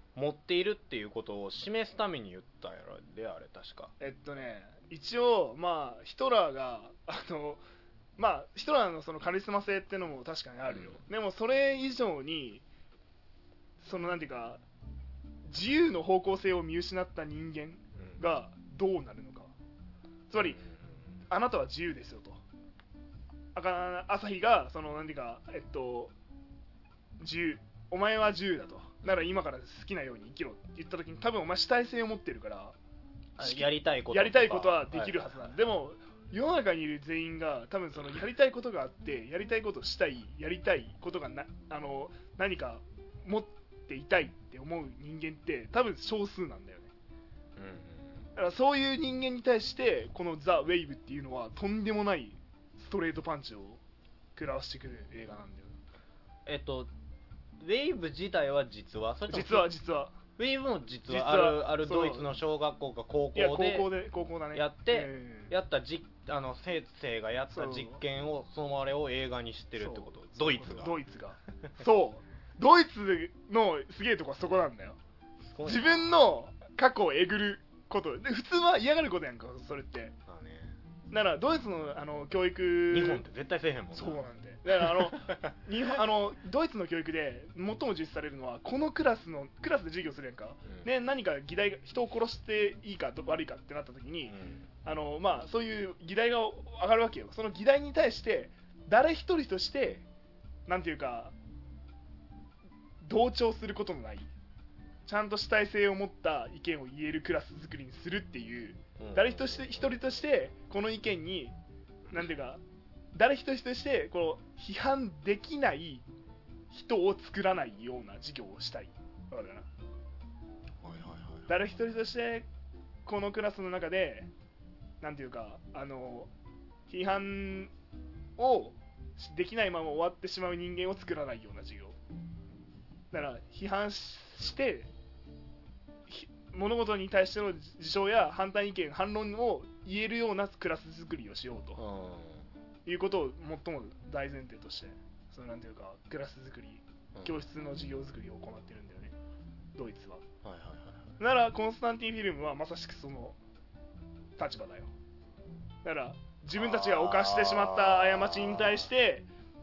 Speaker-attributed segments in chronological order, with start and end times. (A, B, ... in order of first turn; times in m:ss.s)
0:00.2-0:03.9 A
0:04.0-0:07.6 B
0:08.2-0:12.6 B
0:10.7-0:11.0 A
0:13.8-0:14.6 B
0:15.5-0:19.5 B
0:20.3-0:20.6 B
0:20.4-0:21.0 A
0:21.3-0:22.4 B
0:23.6-0:26.1 B
0:27.2-0:32.8 B
0:33.4-0:35.6 A
0:33.4-0:46.9 B
0:47.6-0:48.2 A
0:48.4-0:53.8 B
0:54.4-0:55.8 B
0:56.5-0:56.9 A
0:57.6-0:59.7 A
0:59.3-1:00.2 B
1:00.4-1:03.9 A
1:01.1-1:02.3 B
1:03.3-1:05.5 B
1:04.5-1:11.0 A
1:07.5-1:08.0 B
1:09.8-1:15.0 B
1:15.4-1:16.2 A
1:15.6-1:20.2 B
1:20.3-1:20.8 A
1:21.1-1:23.2 B
1:22.9-1:24.3 A
1:23.9-1:40.1 B
1:24.8-1:25.5 A
1:34.3-1:34.7 A
1:40.7-1:41.3 B
1:43.0-1:44.3 B
1:45.1-1:51.6 B
1:49.0-1:49.9 A
1:52.1-1:52.6 B
1:53.1-1:56.0 B
1:56.7-1:59.7 B
2:00.8-2:01.5 A
2:01.5-2:02.5 B
2:03.1-2:04.3 B
2:05.0-2:06.3 B
2:06.9-2:07.7 B
2:08.4-2:12.0 B
2:13.1-2:14.9 B
2:16.1-2:21.8 B
2:21.8-2:22.5 A
2:22.9-2:29.2 B
2:29.8-2:30.2 B
2:30.4-2:31.2 A
2:31.2-2:33.4 B
2:34.4-2:34.9 B
2:35.8-2:39.3 B
2:36.5-2:38.9 A